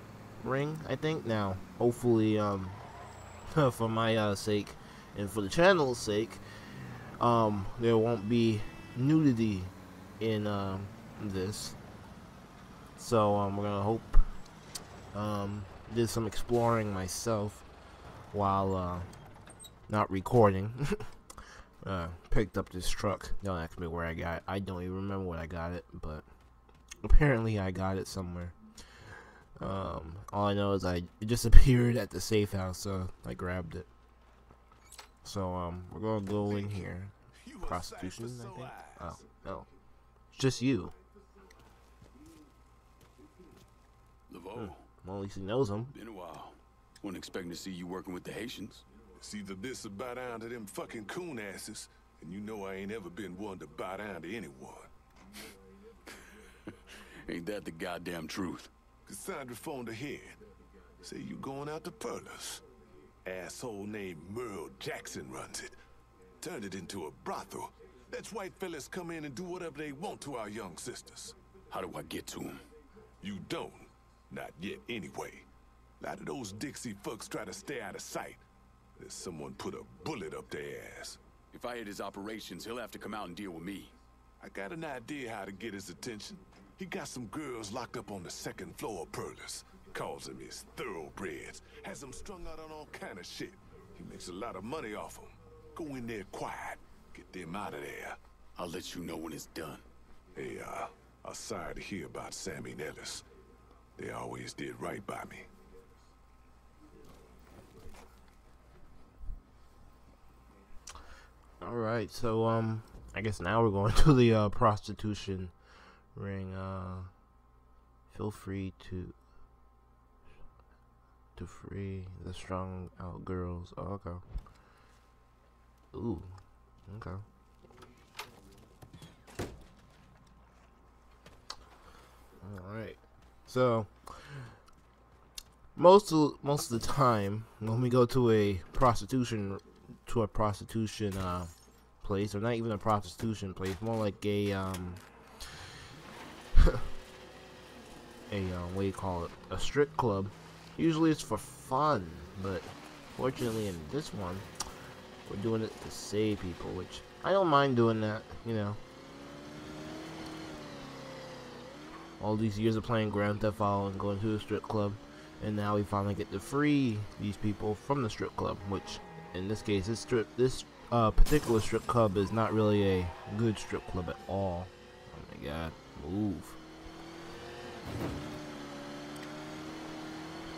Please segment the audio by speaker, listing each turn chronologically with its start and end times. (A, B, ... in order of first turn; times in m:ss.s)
0:00.4-0:02.8 A
0:03.5-0:06.4 A
0:07.2-0:11.8 A
0:13.0-0:14.3 A
0:15.1-0:17.7 A
0:18.3-0:19.1 A
0:19.9-0:21.2 A
0:21.8-0:26.3 A
0:27.0-0:33.9 A
0:35.2-0:39.7 A
0:36.4-0:39.2 B
0:40.3-0:40.9 A
0:44.3-0:44.9 C
0:44.6-0:45.9 A
0:45.9-0:48.8 C
0:49.2-0:54.9 B
0:57.2-0:58.7 C
0:59.1-1:00.4 B
1:01.0-1:02.6 B
1:03.2-1:05.8 B
1:06.4-1:11.4 B
1:11.7-1:12.7 C
1:13.2-1:15.5 B
1:16.0-1:18.4 B
1:19.0-1:21.2 B
1:21.5-1:24.0 C
1:24.4-1:38.2 B
1:38.6-1:39.8 C
1:40.3-1:43.2 B
1:44.0-1:45.5 B
1:51.6-1:55.5 A
1:56.2-1:57.1 A
1:58.1-1:59.2 A
2:01.4-2:04.2 A
2:05.9-2:07.2 A
2:12.4-2:14.5 A
2:15.8-2:25.7 A
2:26.6-2:26.8 A
2:28.3-2:34.5 A
2:35.2-2:38.8 A
2:42.2-2:56.6 A